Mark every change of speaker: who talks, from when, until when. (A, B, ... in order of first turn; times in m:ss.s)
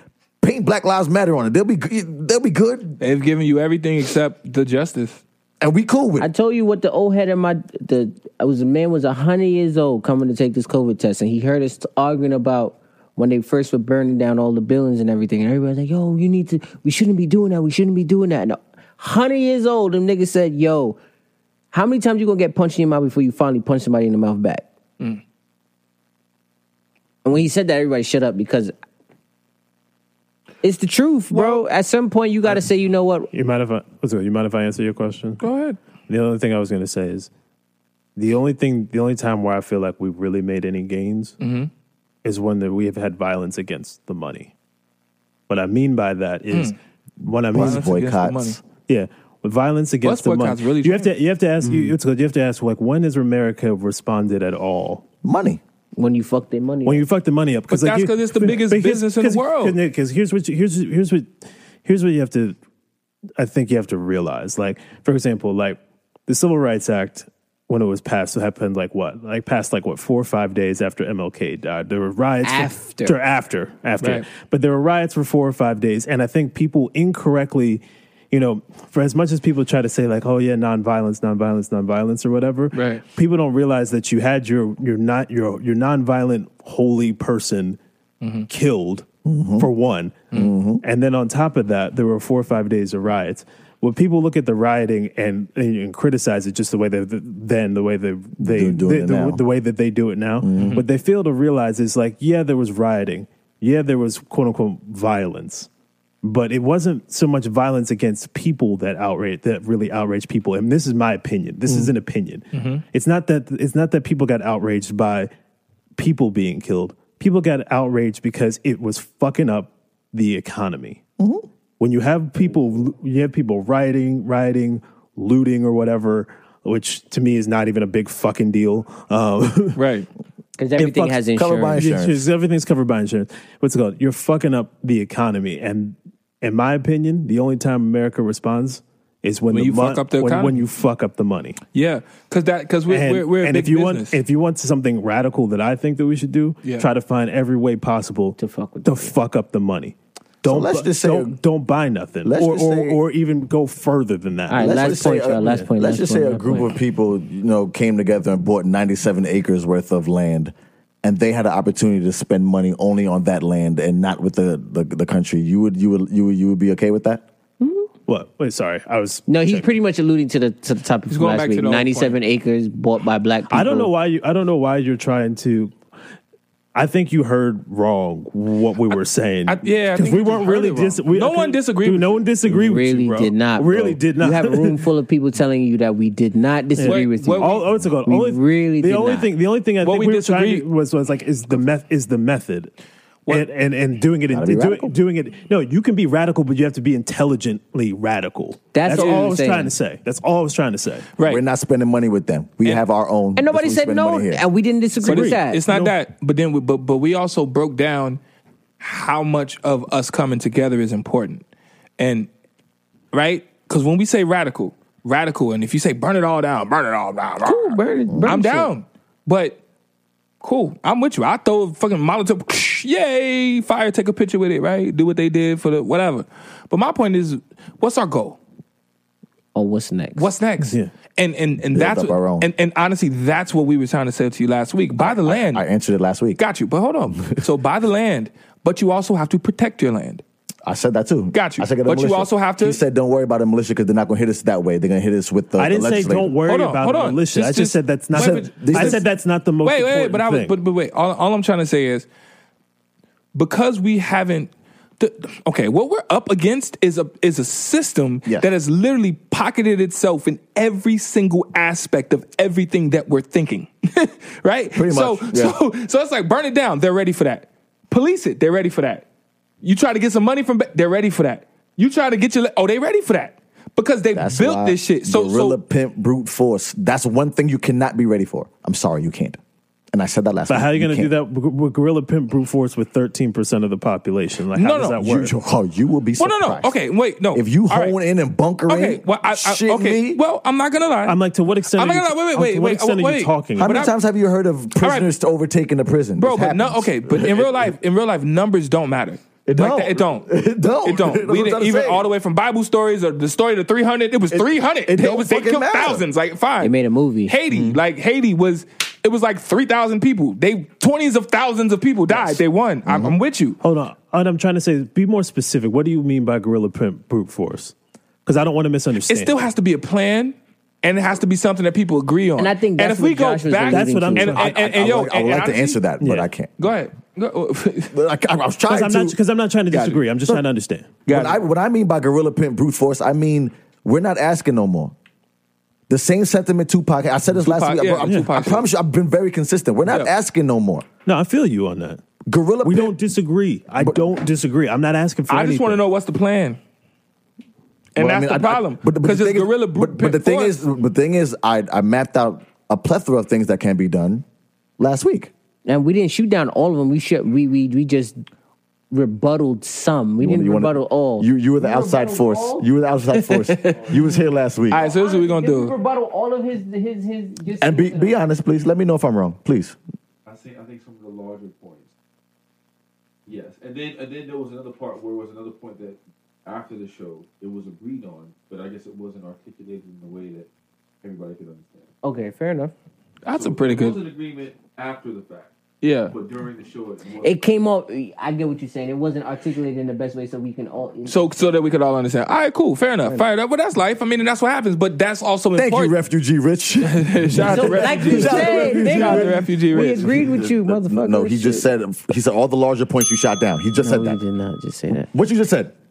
0:00.4-0:03.0 A
0:03.0-0:05.2 B
0:05.6-0:06.3 A
0:06.2-0:21.0 C
0:21.7-0:24.6 C
0:27.2-0:28.7 C
0:30.6-0:33.3 C
0:31.3-0:31.6 B
0:33.3-0:35.4 D
0:35.4-0:35.8 B
0:36.1-0:37.3 D
0:38.2-0:41.4 D
0:41.4-0:41.7 B
0:42.2-0:44.5 D
0:45.5-0:47.8 D
0:47.4-0:48.6 A
0:47.5-0:48.6 B
0:48.9-0:55.0 D
0:50.0-0:51.1 B
0:55.2-0:55.6 A
0:56.0-0:57.0 C
0:56.8-1:01.3 D
0:57.7-0:59.8 B
1:01.8-1:02.6 D
1:03.4-1:27.8 D
1:12.4-1:13.2 C
1:14.0-1:14.2 B
1:22.7-1:23.0 B
1:28.2-1:28.5 B
1:28.5-1:29.1 D
1:29.2-1:29.7 A
1:29.6-1:30.3 D
1:30.3-1:30.8 A
1:30.8-1:45.7 D
1:38.4-1:39.4 A
1:40.4-1:40.8 A
1:40.6-1:40.8 B
1:46.2-1:55.3 D
1:52.5-1:52.8 B
1:56.0-2:01.0 D
2:01.2-2:01.4 A
2:01.8-2:09.8 D
2:09.7-2:10.1 B
2:10.6-2:11.8 C
2:10.8-2:11.2 D
2:11.3-2:12.3 A
2:11.7-2:21.6 D
2:19.5-2:20.6 B
2:21.7-2:24.2 B
2:22.9-2:35.7 D
2:26.6-2:26.9 B
2:28.4-2:29.1 C
2:30.4-2:31.4 A
2:32.2-2:33.0 A
2:34.5-2:36.7 C
2:34.6-2:47.2 A
2:47.6-2:47.9 C
2:48.0-2:49.7 D
2:49.3-2:53.9 C
2:51.1-2:52.2 B
2:53.5-2:55.8 D
2:56.7-3:04.8 D
2:59.5-3:02.2 B
3:02.5-3:09.3 C
3:06.8-3:12.7 D
3:06.8-3:07.7 B
3:09.8-3:10.6 B
3:13.3-3:21.1 D
3:14.3-3:15.0 A
3:18.7-3:19.7 C
3:18.9-3:19.2 B
3:21.2-3:21.4 B
3:21.2-3:24.4 A
3:23.4-3:25.6 C
3:25.0-3:26.0 D
3:25.0-3:28.2 B
3:28.8-3:31.4 B
3:32.0-3:32.3 B
3:33.1-3:39.6 B
3:37.4-3:38.7 C
3:38.1-3:38.3 A
3:40.4-3:48.4 B
3:49.5-3:50.3 C
3:50.2-3:55.6 B
3:50.6-3:50.9 D
3:51.7-3:52.5 A
3:55.0-3:56.4 A
3:56.4-4:00.2 B
4:00.6-4:06.4 A
4:01.3-4:02.8 B
4:05.6-4:10.5 D
4:06.4-4:09.0 B
4:08.1-4:09.0 A
4:09.6-4:12.0 B
4:13.3-4:29.0 B
4:24.7-4:25.6 A
4:29.6-4:35.6 B
4:34.1-4:39.4 A
4:39.9-4:41.1 A
4:40.5-4:45.3 D
4:44.5-4:45.0 B
4:45.0-4:46.8 A
4:46.2-4:47.9 B
4:47.3-4:50.2 A
4:48.7-4:51.2 B
4:51.0-4:53.9 D
4:51.7-4:53.9 B
4:53.6-4:57.7 A
4:54.8-4:55.1 B
4:56.2-5:00.3 B
4:59.4-5:02.1 A
5:00.8-5:06.7 B
5:04.3-5:06.0 A
5:06.6-5:07.4 C
5:07.3-5:13.6 B
5:07.5-5:07.8 A
5:12.1-5:13.2 A
5:13.6-5:17.7 D
5:18.2-5:19.3 D
5:19.1-5:25.8 B
5:22.4-5:24.4 C
5:23.7-5:24.6 D
5:24.4-5:26.5 A
5:26.0-5:26.3 D
5:26.6-5:27.9 B
5:27.9-5:29.2 A
5:28.7-5:31.0 D
5:29.7-5:30.4 B
5:31.1-5:31.4 B
5:31.1-5:34.9 A
5:35.9-5:40.8 A
5:37.4-5:38.6 B
5:41.0-5:42.0 D
5:42.3-5:43.0 A
5:42.6-5:45.8 D
5:43.8-5:44.1 A
5:45.3-5:46.6 B
5:48.0-5:50.6 B
5:48.0-5:54.2 A
5:54.8-5:55.3 A
5:55.6-5:58.2 C
5:58.9-6:04.0 C
6:00.2-6:04.8 A
6:04.7-6:05.7 B
6:04.7-6:08.2 C
6:07.6-6:09.8 A
6:10.2-6:11.9 E
6:13.2-6:20.5 E
6:21.0-6:21.9 E
6:22.0-6:22.7 C
6:23.2-6:24.0 B
6:23.3-6:25.5 E
6:25.8-6:26.2 B
6:26.0-6:27.4 E
6:27.2-6:31.2 C
6:31.1-6:35.9 B
6:35.5-6:39.5 A
6:36.8-6:40.1 B
6:37.4-6:41.6 C
6:40.0-6:44.2 A
6:43.8-6:45.1 C
6:45.1-6:45.7 A